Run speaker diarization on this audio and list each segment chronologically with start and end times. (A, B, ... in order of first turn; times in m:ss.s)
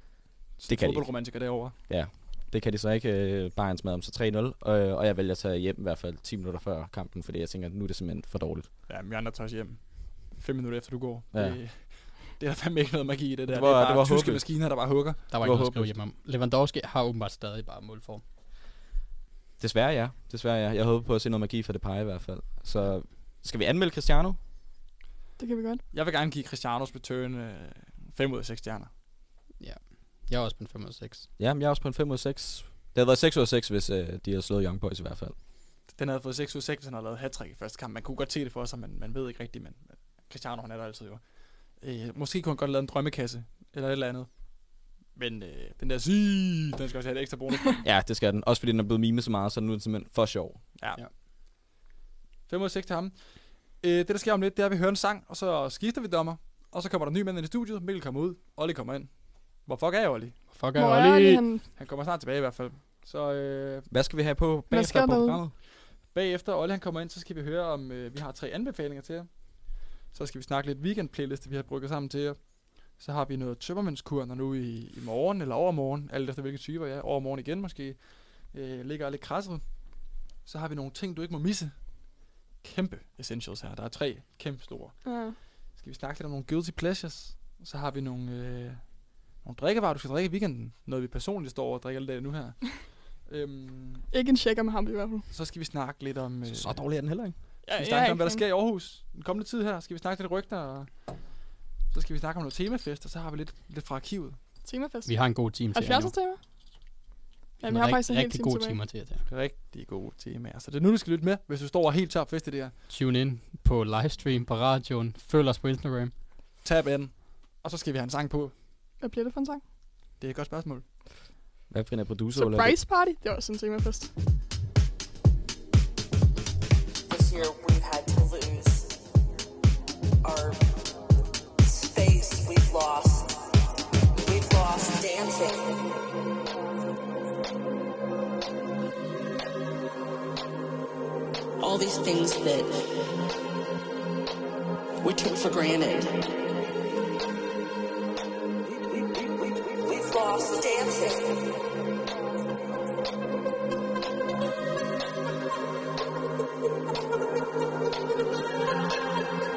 0:00.6-0:01.8 A
0:00.7-0:01.1 B
0:01.9-0:08.7 B
0:08.9-0:15.3 A
0:11.3-0:11.6 B
0:13.5-0:14.4 B
0:15.3-0:18.2 C
0:15.4-0:15.9 B
0:19.6-0:24.4 B
0:25.4-0:25.8 D
0:25.9-0:28.9 A
0:29.6-0:31.3 C
0:31.4-0:35.3 B
0:35.9-0:41.2 A
0:41.8-0:44.3 A
0:45.1-0:47.8 A
0:47.8-0:50.6 B
0:52.5-0:53.2 A
0:53.8-0:59.1 A
0:59.6-1:00.4 A
1:00.5-1:01.4 C
1:00.7-1:01.7 D
1:01.7-1:03.9 A
1:03.9-1:05.5 B
1:04.7-1:05.4 D
1:06.1-1:09.3 A
1:10.1-1:12.4 A
1:12.9-1:18.0 A
1:18.5-1:19.6 A
1:20.4-1:21.7 A
1:22.6-1:25.0 A
1:25.0-1:25.4 D
1:25.8-1:28.8 A
1:29.4-1:32.6 A
1:33.2-1:34.0 A
1:34.1-1:35.3 D
1:35.3-1:36.8 A
1:36.5-1:37.3 B
1:37.6-1:38.5 D
1:37.7-1:40.9 A
1:41.9-1:44.4 A
1:44.6-1:45.2 D
1:45.0-1:46.1 C
1:45.7-1:46.4 D
1:47.6-1:48.8 D
1:47.6-1:49.2 C
1:49.3-1:52.8 A
1:52.9-1:56.1 C
1:56.6-1:58.5 A
1:59.0-1:59.6 D
2:00.2-2:00.8 A
2:01.7-2:02.8 B
2:02.3-2:04.1 D
2:07.1-2:08.9 E
2:10.2-2:10.6 E
2:11.6-2:13.4 E
2:14.2-2:15.6 E
2:21.6-2:22.7 E
2:25.0-2:26.2 E
2:29.8-2:31.3 E